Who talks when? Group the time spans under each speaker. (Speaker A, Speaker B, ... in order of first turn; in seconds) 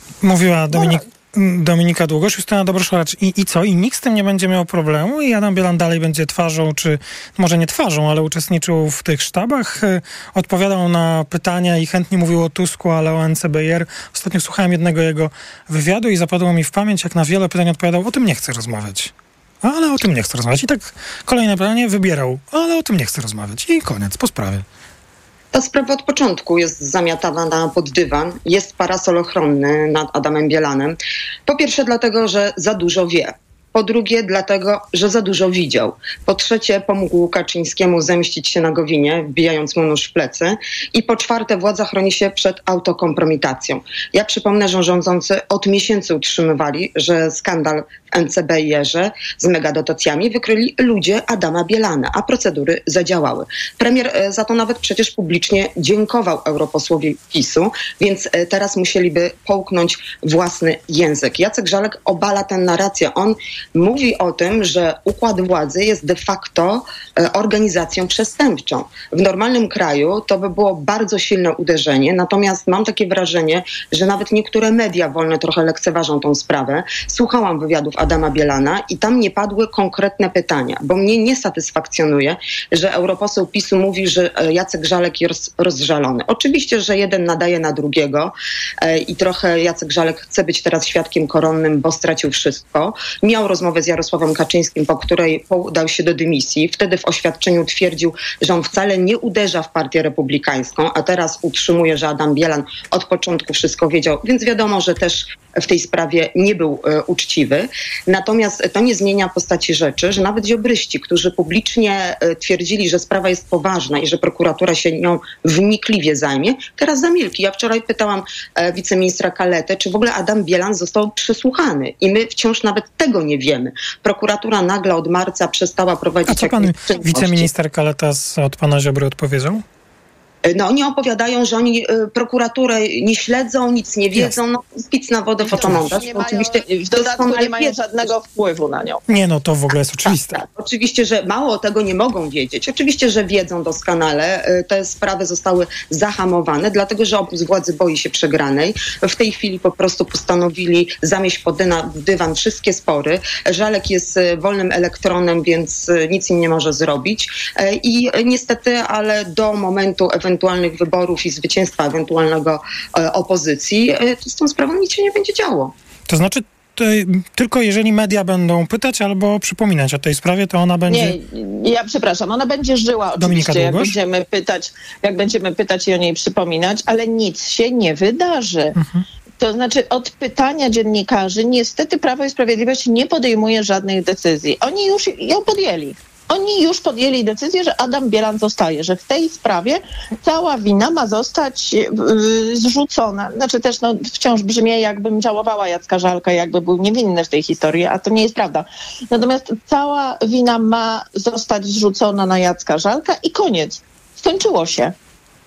Speaker A: 0.2-19.1, 19.6-24.6, 126.3-129.6, 135.5-136.0, 139.1-140.4, 166.1-171.2, 173.2-174.0, 178.8-179.0
Speaker B: 0.7-1.0, 135.4-139.0, 170.9-178.8, 179.4-204.9
Speaker C: 25.5-127.5, 130.4-137.7, 140.0-165.7